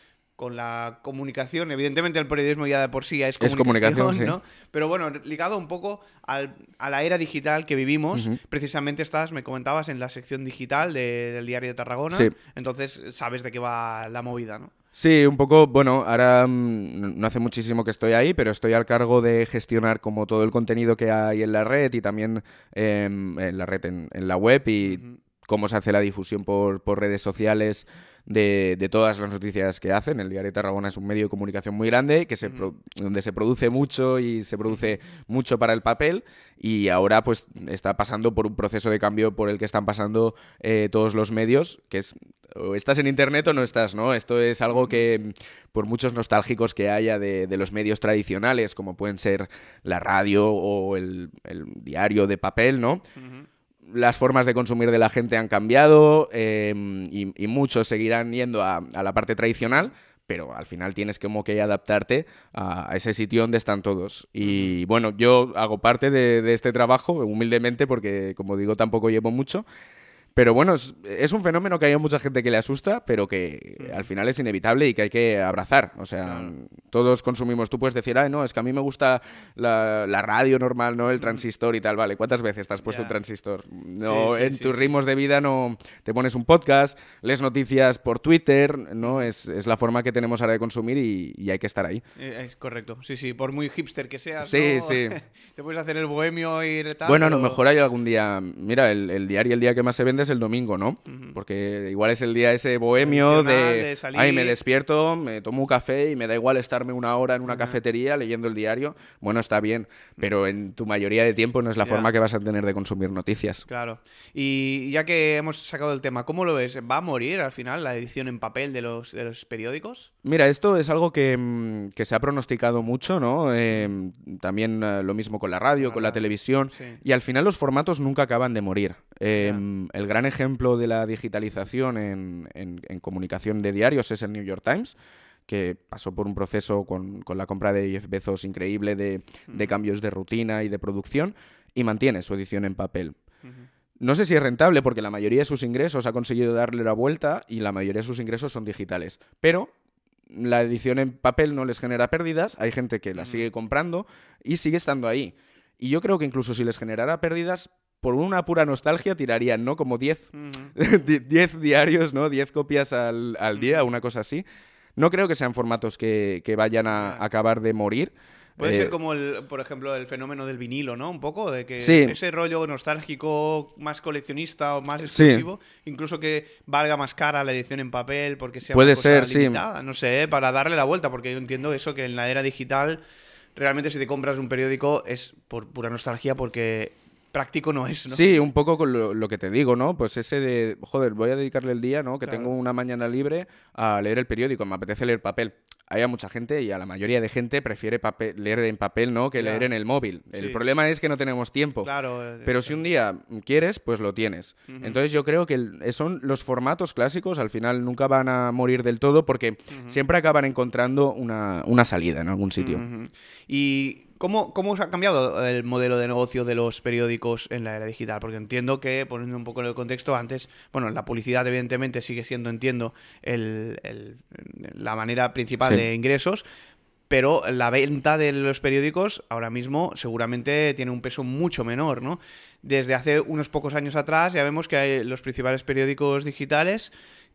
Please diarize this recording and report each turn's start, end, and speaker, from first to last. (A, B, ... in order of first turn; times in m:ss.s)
0:00.4-0:14.7 A
0:03.4-0:04.4 B
0:08.1-0:08.4 B
0:14.9-0:53.0 B
0:24.8-0:25.2 A
0:32.4-0:32.7 A
0:44.7-0:45.0 A
0:53.2-0:53.5 A
0:53.8-1:09.6 B
1:04.4-1:04.8 A
1:10.4-1:32.0 B
1:13.8-1:14.1 A
1:16.2-1:16.5 A
1:21.1-1:21.4 A
1:22.8-1:23.2 A
1:24.0-1:24.9 A
1:29.0-1:29.3 A
1:32.2-1:37.6 A
1:34.4-1:35.1 B
1:37.0-1:53.6 B
1:41.1-1:41.4 A
1:43.0-1:44.6 A
1:47.4-1:47.8 A
1:51.8-1:52.1 A
1:53.7-2:00.1 A
2:00.2-2:14.9 B
2:05.8-2:07.0 A
2:09.3-2:09.6 A
2:15.5-2:23.2 B
2:19.5-2:19.7 A
2:24.0-2:29.7 B
2:30.3-2:44.4 B
2:33.1-2:33.5 A
2:40.3-2:40.7 A
2:43.5-2:43.9 A
2:45.0-2:48.9 B
2:46.9-2:47.2 A
2:48.6-3:03.0 A
2:51.8-2:52.2 B
2:55.0-2:55.4 B
2:58.7-2:59.6 B
3:03.6-3:08.2 A
3:08.1-3:21.9 B
3:12.2-3:12.5 A
3:19.4-3:19.7 A
3:20.3-3:20.6 A
3:21.8-3:22.8 A
3:22.4-3:32.8 B
3:24.7-3:25.0 A
3:29.7-3:30.0 A
3:32.6-3:46.4 A
3:47.1-3:56.9 A